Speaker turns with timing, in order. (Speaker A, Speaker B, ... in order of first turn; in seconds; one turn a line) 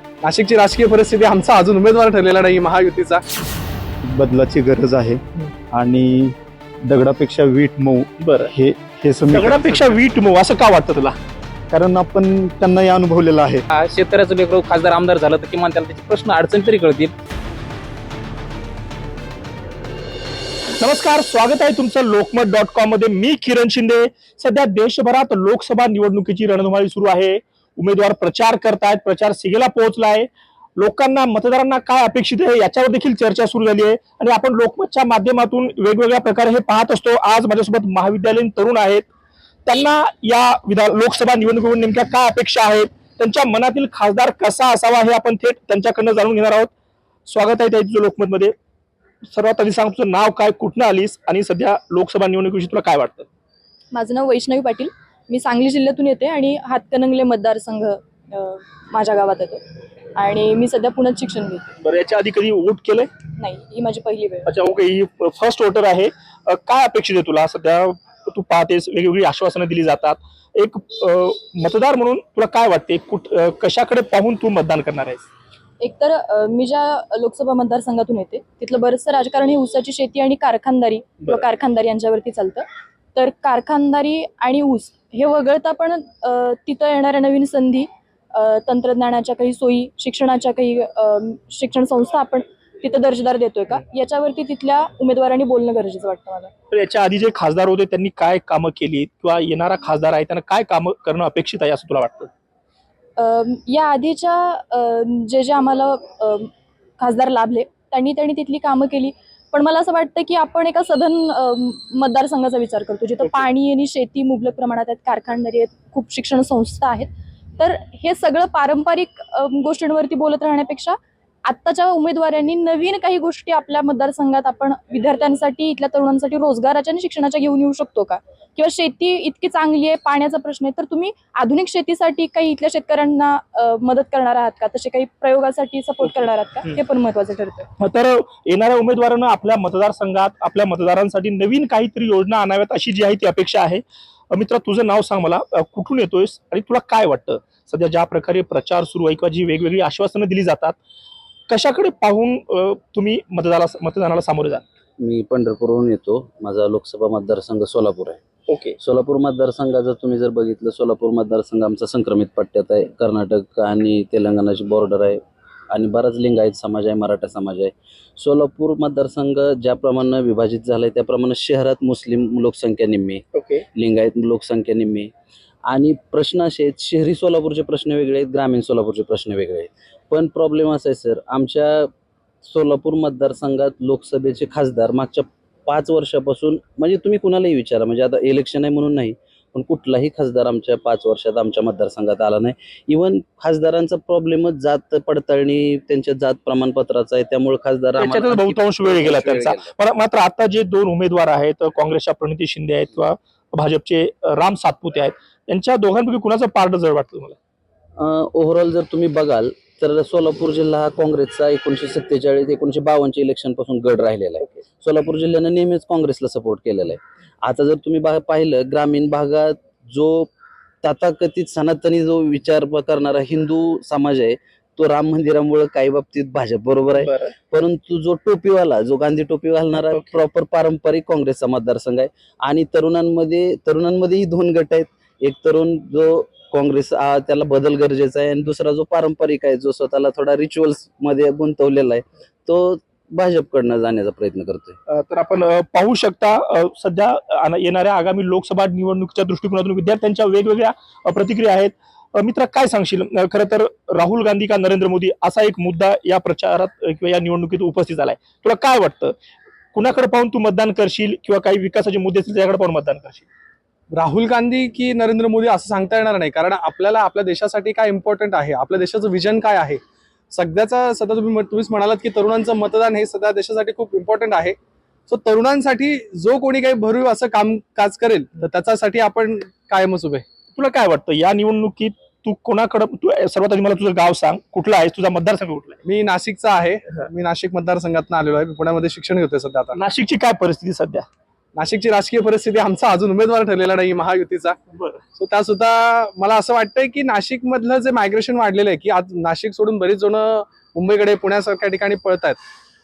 Speaker A: 0.2-3.2
Speaker B: 4.1-5.2
Speaker B: 5.7-9.8
Speaker C: 8.2-8.5
Speaker C: 9.3-11.2
Speaker B: 11.7-13.6
Speaker D: 13.7-17.1
Speaker C: 20.8-39.1
Speaker C: 39.7-46.7
Speaker C: 47.3-48.5
Speaker C: 49.3-53.3
Speaker E: 53.9-59.6
Speaker E: 60.2-61.7
Speaker C: 61.8-63.1
Speaker E: 63.4-64.5
Speaker C: 64.5-75.3
Speaker E: 75.8-96.5
Speaker C: 96.7-102.3
Speaker E: 103.2-137.7
Speaker C: 137.8-150.8
Speaker C: 151.5-154.7
Speaker F: 155.0-158.2
Speaker C: 158.5-158.8
Speaker F: 158.8-165.2
Speaker F: 165.7-173.2
Speaker C: 173.3-173.6
Speaker F: 173.8-175.1
Speaker F: 175.7-181.9
Speaker F: 182.4-199.7
Speaker C: 198.0-207.4
Speaker F: 208.0-220.3
Speaker F: 220.8-244.8
Speaker C: 227.0-227.3
Speaker C: 229.9-230.2
Speaker C: 244.9-259.2
Speaker C: 259.7-263.2
Speaker A: 264.0-269.8
Speaker A: 270.3-274.6
Speaker A: 275.1-280.2
Speaker C: 280.6-285.8
Speaker A: 285.9-289.8
Speaker C: 289.7-291.1
Speaker A: 291.6-294.6
Speaker C: 294.7-295.0
Speaker A: 295.2-302.4